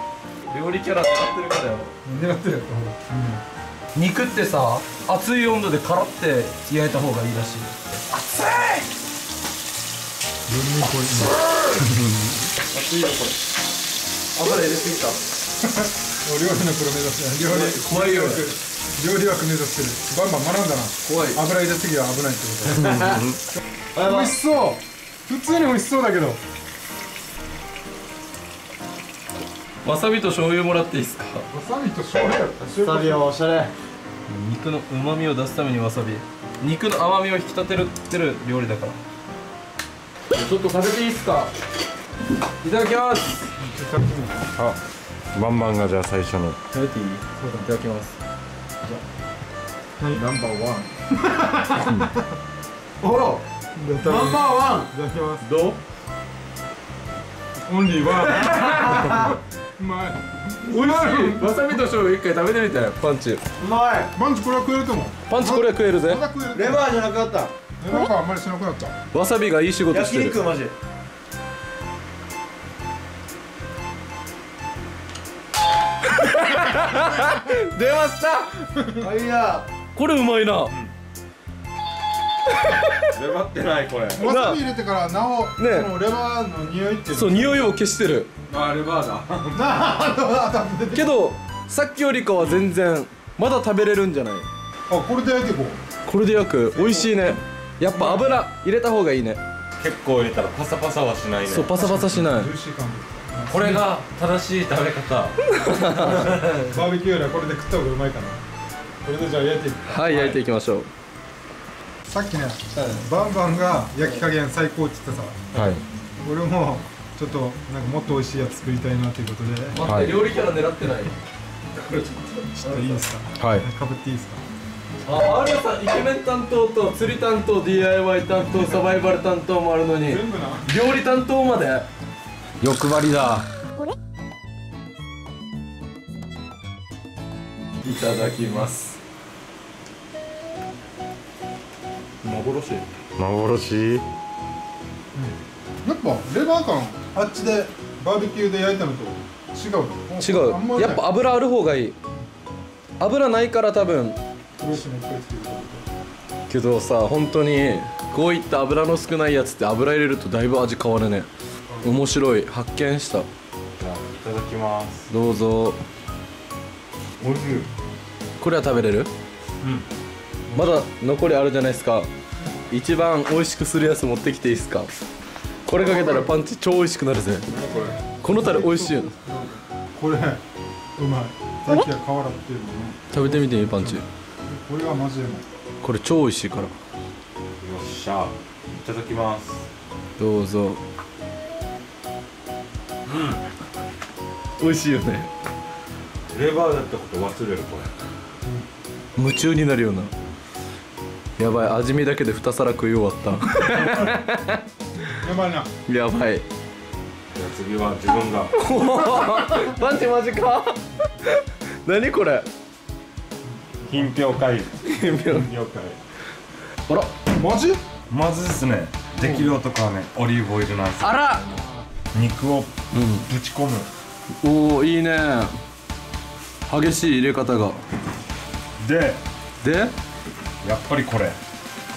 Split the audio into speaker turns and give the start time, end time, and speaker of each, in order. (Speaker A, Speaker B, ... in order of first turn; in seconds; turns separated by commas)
Speaker A: 0.5-1.9, Speaker B: 2.0-3.4, Speaker A: 3.9-8.9, Speaker B: 10.5-12.3, Speaker A: 12.7-13.3, Speaker A: 14.3-15.2, Speaker B: 15.6-23.2, Speaker A: 17.4-18.5, Speaker A: 21.0-21.4, Speaker C: 22.7-23.4, Speaker D: 23.9-24.3, Speaker B: 24.0-26.4, Speaker A: 29.8-31.4, Speaker B: 31.5-33.2, Speaker D: 32.8-33.7, Speaker A: 34.3-39.0, Speaker A: 40.3-41.5, Speaker A: 42.6-43.5, Speaker B: 43.6-44.5, Speaker C: 45.3-46.6, Speaker A: 46.7-48.1, Speaker B: 47.4-47.7, Speaker B: 50.0-50.2, Speaker A: 50.1-50.9, Speaker B: 51.1-52.3, Speaker D: 53.0-53.4, Speaker B: 53.7-55.5, Speaker D: 54.0-54.9, Speaker A: 55.4-55.8, Speaker B: 57.7-61.8, Speaker A: 58.4-58.9, Speaker D: 58.6-59.3, Speaker A: 60.6-63.4, Speaker D: 63.6-64.1, Speaker B: 64.1-66.9, Speaker A: 65.3-66.2, Speaker D: 66.5-67.5, Speaker B: 67.8-68.9, Speaker A: 69.1-70.4, Speaker D: 69.9-70.7, Speaker A: 76.0-78.7, Speaker D: 79.0-79.7, Speaker A: 79.9-80.7, Speaker A: 82.5-83.1, Speaker C: 83.1-84.2, Speaker B: 84.2-87.7, Speaker A: 84.2-84.6, Speaker A: 85.6-85.9, Speaker A: 87.1-88.3, Speaker C: 88.5-89.7, Speaker B: 89.5-91.2, Speaker A: 90.9-94.5, Speaker C: 92.4-92.6, Speaker B: 94.9-95.8, Speaker A: 96.0-99.4, Speaker B: 96.7-97.1, Speaker B: 97.9-98.3, Speaker C: 99.8-101.8, Speaker A: 101.5-102.5, Speaker B: 101.8-103.8, Speaker C: 103.5-105.4, Speaker A: 105.5-106.5, Speaker B: 106.0-108.4, Speaker C: 106.2-106.4, Speaker B: 109.0-110.4, Speaker A: 109.9-110.9, Speaker B: 112.1-115.5, Speaker A: 112.8-113.0, Speaker C: 115.5-115.8, Speaker B: 116.2-119.8, Speaker A: 119.7-121.1, Speaker C: 119.8-120.2, Speaker A: 121.7-123.0, Speaker B: 122.6-124.4, Speaker C: 123.4-123.6, Speaker A: 125.0-131.9, Speaker B: 130.0-130.7, Speaker C: 132.6-133.0, Speaker A: 132.6-133.4, Speaker A: 137.8-138.9, Speaker B: 138.1-138.6, Speaker A: 142.2-142.8, Speaker C: 143.2-144.1, Speaker B: 145.1-151.1, Speaker A: 150.2-151.9, Speaker A: 153.0-154.2, Speaker B: 154.6-155.8, Speaker A: 156.5-161.3, Speaker A: 161.8-163.3, Speaker C: 163.8-165.1, Speaker A: 165.1-165.8, Speaker C: 167.2-167.7, Speaker A: 168.4-169.1, Speaker A: 170.5-172.1, Speaker A: 172.7-174.9, Speaker A: 175.7-177.5, Speaker B: 175.7-176.3, Speaker C: 177.5-178.0, Speaker B: 177.6-180.4, Speaker A: 178.2-179.1, Speaker B: 181.0-185.4, Speaker A: 183.1-184.0, Speaker A: 185.8-186.7, Speaker C: 187.6-189.6, Speaker A: 190.2-190.8, Speaker C: 193.1-193.4, Speaker A: 194.6-195.3, Speaker C: 196.3-197.9, Speaker A: 199.2-200.1, Speaker A: 201.4-204.6, Speaker B: 205.2-205.7, Speaker A: 205.9-206.4, Speaker C: 207.3-208.6, Speaker A: 208.5-212.5, Speaker C: 213.8-216.0, Speaker A: 214.8-215.5, Speaker B: 217.3-217.8, Speaker C: 218.1-221.4, Speaker A: 221.0-221.4, Speaker C: 222.1-223.9, Speaker A: 222.9-223.2, Speaker A: 224.4-225.6, Speaker A: 226.7-227.8, Speaker C: 228.8-229.2, Speaker A: 229.6-229.9, Speaker C: 230.6-231.4